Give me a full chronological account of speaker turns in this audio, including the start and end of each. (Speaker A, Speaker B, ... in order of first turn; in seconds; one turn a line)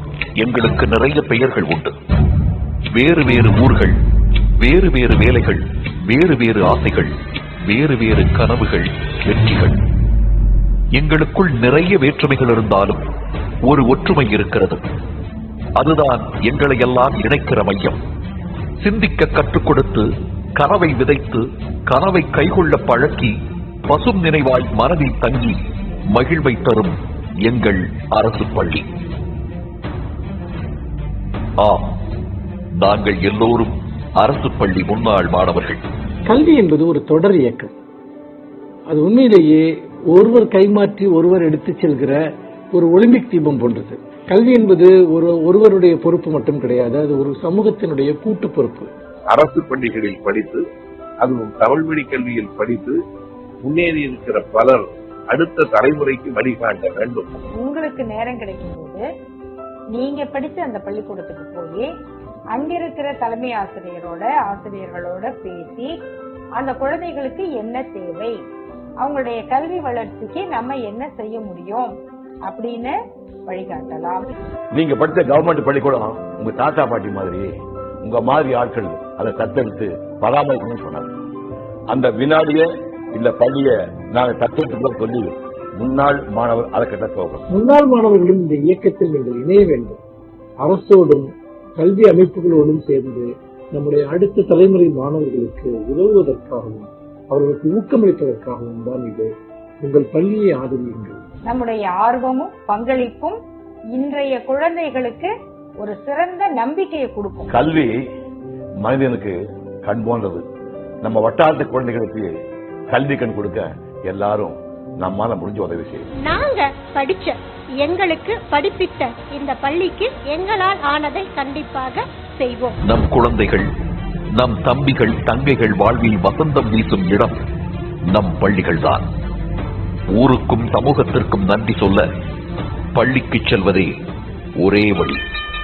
Speaker A: 0.4-1.9
Speaker A: 2.9-4.0
Speaker A: 4.6-7.1
Speaker A: 7.7-9.8
Speaker A: 10.9-13.0
Speaker A: 13.6-14.8
Speaker A: 15.8-18.0
Speaker A: 18.8-23.3
Speaker A: 23.9-25.6
Speaker A: 26.1-28.9
Speaker A: 31.6-31.9
Speaker A: 32.8-35.8
Speaker B: 36.3-37.7
Speaker B: 38.9-42.2
Speaker B: 42.7-48.9
Speaker C: 49.3-50.6
Speaker C: 51.2-53.0
Speaker C: 53.6-57.3
Speaker D: 57.6-59.0
Speaker D: 59.9-61.9
Speaker D: 62.5-66.0
Speaker D: 66.6-68.3
Speaker D: 69.0-71.9
Speaker D: 72.5-72.9
Speaker D: 73.5-74.3
Speaker E: 74.8-77.5
Speaker E: 78.0-81.1
Speaker E: 81.9-87.5
Speaker B: 87.5-90.0
Speaker B: 90.6-101.2
Speaker D: 101.5-103.4
Speaker D: 104.0-107.5
Speaker E: 107.5-107.9
Speaker E: 108.8-110.4
Speaker E: 111.0-112.3
Speaker E: 112.9-116.1
Speaker F: 116.2-122.8
Speaker A: 122.8-123.7
Speaker A: 124.3-127.4
Speaker A: 128.1-129.1
Speaker A: 130.1-132.1
Speaker A: 132.9-133.9
Speaker A: 134.6-135.2